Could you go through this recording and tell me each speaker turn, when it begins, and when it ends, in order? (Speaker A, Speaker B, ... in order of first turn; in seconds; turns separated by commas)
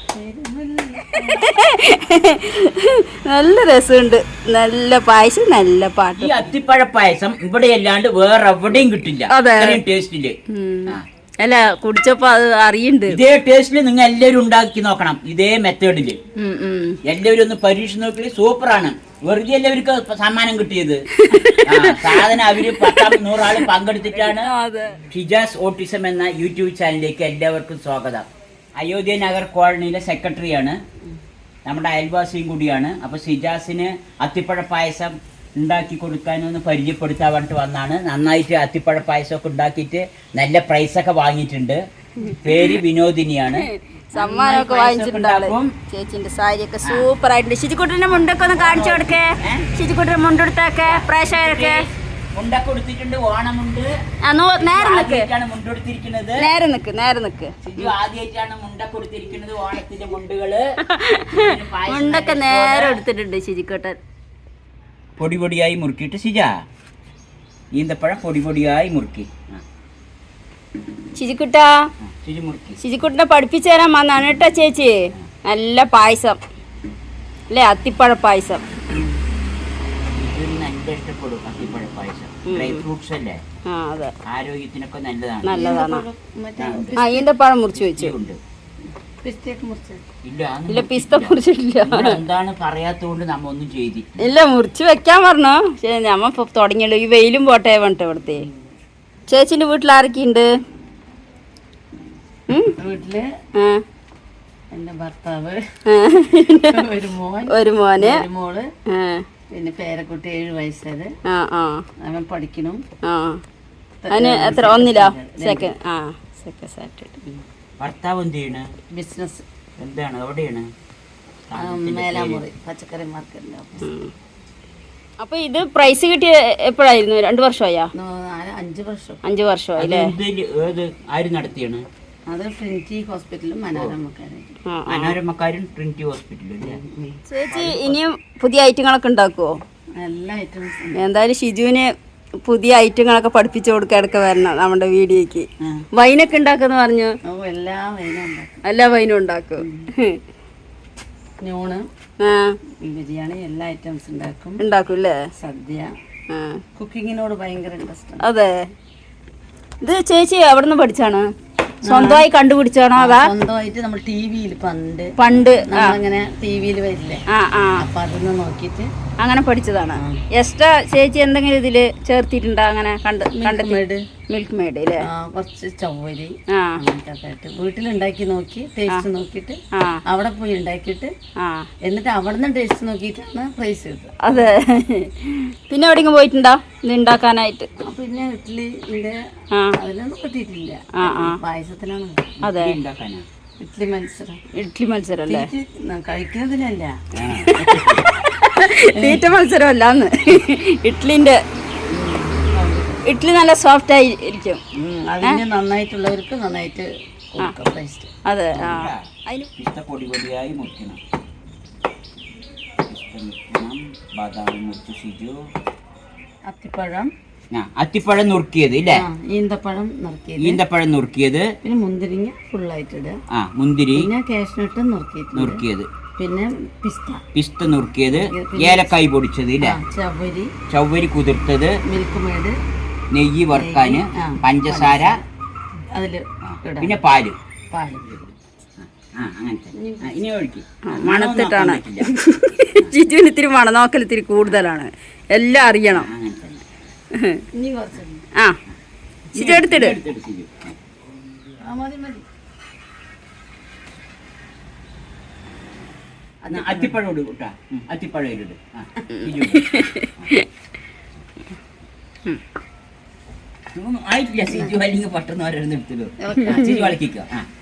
Speaker A: 0.1-1.5, Speaker B: 1.4-6.4, Speaker C: 6.2-10.4, Speaker B: 9.3-9.8, Speaker B: 10.5-13.2, Speaker C: 13.1-16.2, Speaker B: 16.4-17.0, Speaker C: 17.0-21.0, Speaker B: 21.2-25.0, Speaker C: 21.6-24.5, Speaker C: 25.1-30.8, Speaker C: 31.6-41.8, Speaker B: 42.2-42.8, Speaker C: 42.4-45.7, Speaker B: 43.5-51.9, Speaker C: 46.8-47.1, Speaker C: 48.5-49.7, Speaker C: 50.8-53.9, Speaker B: 54.2-55.3, Speaker C: 54.6-56.5, Speaker B: 56.4-57.9, Speaker C: 57.6-60.6, Speaker B: 60.9-64.0, Speaker C: 61.3-63.0, Speaker C: 65.2-66.5, Speaker C: 67.7-69.6, Speaker B: 71.2-71.9, Speaker C: 72.0-72.8, Speaker B: 72.8-76.4, Speaker B: 77.5-78.6, Speaker A: 78.9-79.2, Speaker C: 80.1-83.4, Speaker B: 82.5-82.8, Speaker B: 83.7-84.1, Speaker C: 84.2-85.7, Speaker B: 85.4-86.0, Speaker A: 85.5-87.3, Speaker C: 86.6-87.0, Speaker B: 87.0-88.1, Speaker C: 87.7-88.4, Speaker A: 89.2-90.0, Speaker C: 90.2-94.2, Speaker B: 90.7-92.2, Speaker B: 94.2-98.4, Speaker B: 99.3-100.5, Speaker B: 102.5-102.7, Speaker A: 102.8-103.3, Speaker B: 103.5-103.8, Speaker A: 104.7-108.7, Speaker B: 105.9-106.8, Speaker B: 107.5-108.2, Speaker B: 108.9-109.2, Speaker A: 109.5-111.1, Speaker B: 111.2-111.8, Speaker A: 112.0-112.8, Speaker B: 113.0-113.4, Speaker A: 114.0-115.7, Speaker B: 114.1-117.2, Speaker C: 117.8-118.7, Speaker A: 118.9-119.4, Speaker C: 119.8-120.7, Speaker C: 121.5-122.4, Speaker A: 121.5-123.9, Speaker B: 123.8-124.1, Speaker B: 125.2-127.9, Speaker A: 127.9-129.2, Speaker B: 129.2-130.1, Speaker C: 129.8-131.8, Speaker A: 132.3-134.5, Speaker B: 134.7-135.2, Speaker C: 134.9-136.8, Speaker A: 136.6-138.0, Speaker B: 137.3-139.6, Speaker A: 140.0-141.0, Speaker B: 141.0-141.9, Speaker B: 142.4-147.1, Speaker A: 147.3-148.6, Speaker B: 148.6-150.2, Speaker A: 149.6-149.9, Speaker A: 151.4-151.8, Speaker B: 152.2-152.6, Speaker A: 152.8-154.6, Speaker B: 154.6-155.2, Speaker A: 155.4-155.9, Speaker B: 156.3-156.6, Speaker A: 156.8-158.2, Speaker B: 158.2-158.7, Speaker B: 159.8-161.3, Speaker A: 161.8-162.3, Speaker B: 161.8-163.3, Speaker A: 162.9-167.2, Speaker B: 165.2-165.9, Speaker B: 167.3-167.8, Speaker A: 167.8-168.9, Speaker B: 169.2-173.8, Speaker A: 169.9-170.2, Speaker A: 173.3-174.0, Speaker B: 174.3-175.0, Speaker A: 175.0-181.1, Speaker B: 176.5-176.8, Speaker B: 179.7-180.0, Speaker B: 181.4-181.7, Speaker A: 181.8-184.5, Speaker B: 184.2-187.7, Speaker A: 187.8-189.2, Speaker A: 189.8-192.2, Speaker B: 191.0-191.4, Speaker C: 192.4-193.2, Speaker B: 192.4-192.8, Speaker A: 193.6-194.4, Speaker B: 194.5-195.5, Speaker A: 195.3-197.0, Speaker C: 197.1-198.0, Speaker B: 197.4-201.4, Speaker A: 198.9-199.2, Speaker A: 201.9-203.0, Speaker B: 203.1-204.6, Speaker A: 204.7-208.1, Speaker B: 208.2-209.5, Speaker C: 208.5-211.0, Speaker C: 212.9-215.4, Speaker A: 216.5-217.1, Speaker C: 217.5-219.0, Speaker A: 218.9-220.6, Speaker C: 220.4-221.5, Speaker A: 221.6-223.2, Speaker C: 223.3-224.1, Speaker A: 223.9-225.6, Speaker C: 225.3-225.9, Speaker A: 226.2-227.2, Speaker C: 227.3-229.8, Speaker A: 228.1-228.9, Speaker A: 229.6-230.5, Speaker C: 230.7-231.8, Speaker A: 231.9-232.6, Speaker C: 233.1-235.2, Speaker A: 233.5-235.2, Speaker A: 235.9-237.0, Speaker C: 236.4-237.4, Speaker A: 237.7-238.2, Speaker C: 238.8-242.1, Speaker A: 239.8-240.2, Speaker B: 240.9-246.1, Speaker C: 245.9-246.6, Speaker A: 247.5-248.2, Speaker B: 249.3-249.9, Speaker C: 249.3-250.7, Speaker A: 251.6-252.2, Speaker A: 256.4-257.0, Speaker C: 256.5-260.3, Speaker B: 259.1-260.4, Speaker C: 263.7-267.5, Speaker A: 266.2-266.9, Speaker B: 266.5-266.9